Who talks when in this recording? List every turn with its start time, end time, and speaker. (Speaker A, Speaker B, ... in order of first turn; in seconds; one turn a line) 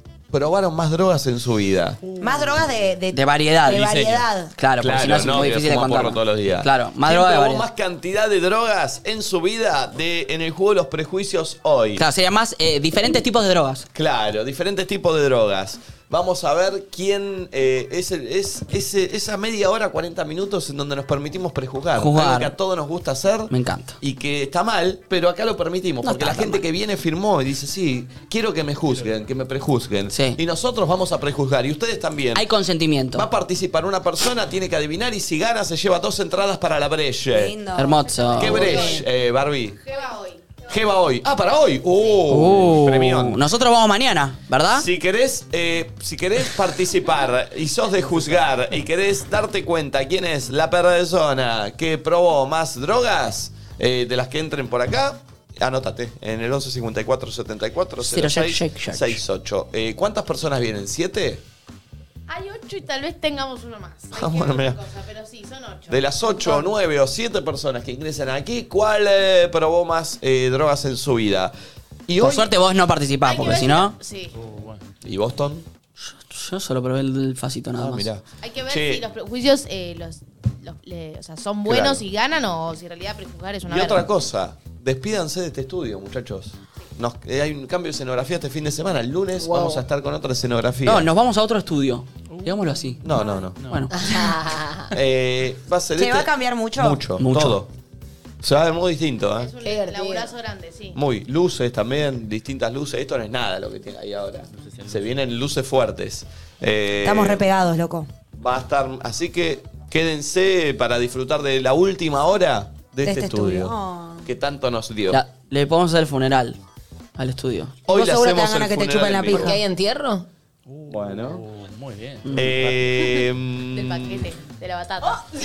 Speaker A: 0.3-2.0
Speaker B: 2.2-4.5
Speaker C: 2.2-2.7
Speaker D: 3.1-7.7
Speaker A: 4.8-12.0
Speaker D: 12.0-13.8
Speaker A: 13.9-32.5
Speaker D: 21.9-22.5
Speaker D: 23.5-24.0
Speaker D: 26.0-26.6
Speaker D: 30.1-30.4
Speaker D: 32.3-33.3
Speaker A: 33.1-37.5
Speaker B: 37.3-38.0
Speaker D: 37.7-38.8
Speaker A: 38.4-39.8
Speaker E: 38.5-39.0
Speaker B: 38.5-38.9
Speaker E: 39.8-40.6
Speaker A: 40.6-43.4
Speaker D: 42.3-44.9
Speaker A: 44.7-61.4
Speaker D: 58.0-59.2
Speaker E: 62.3-66.6
Speaker A: 64.1-64.8
Speaker A: 65.9-71.5
Speaker A: 72.1-72.5
Speaker D: 72.2-73.9
Speaker E: 73.2-74.3
Speaker C: 74.3-74.9
Speaker A: 75.0-75.6
Speaker D: 76.0-78.1
Speaker A: 77.8-79.0
Speaker E: 78.4-84.1
Speaker A: 81.6-82.0
Speaker A: 83.7-91.1
Speaker F: 89.4-89.8
Speaker D: 90.8-93.1
Speaker C: 92.3-93.9
Speaker A: 93.0-93.6
Speaker D: 93.7-93.9
Speaker F: 93.9-94.9
Speaker A: 94.9-97.7
Speaker B: 96.0-97.0
Speaker D: 97.2-97.6
Speaker A: 98.4-99.5
Speaker E: 99.4-101.0
Speaker F: 99.6-100.3
Speaker A: 100.9-107.4
Speaker C: 104.5-105.1
Speaker B: 107.0-108.1
Speaker A: 108.3-113.7
Speaker B: 113.0-114.3
Speaker A: 114.2-115.2
Speaker D: 115.1-116.6
Speaker D: 117.2-117.8
Speaker A: 117.9-119.5
Speaker B: 117.9-119.6
Speaker F: 119.3-120.2
Speaker C: 120.7-122.8
Speaker A: 120.9-121.4
Speaker A: 122.3-124.3
Speaker E: 123.7-125.2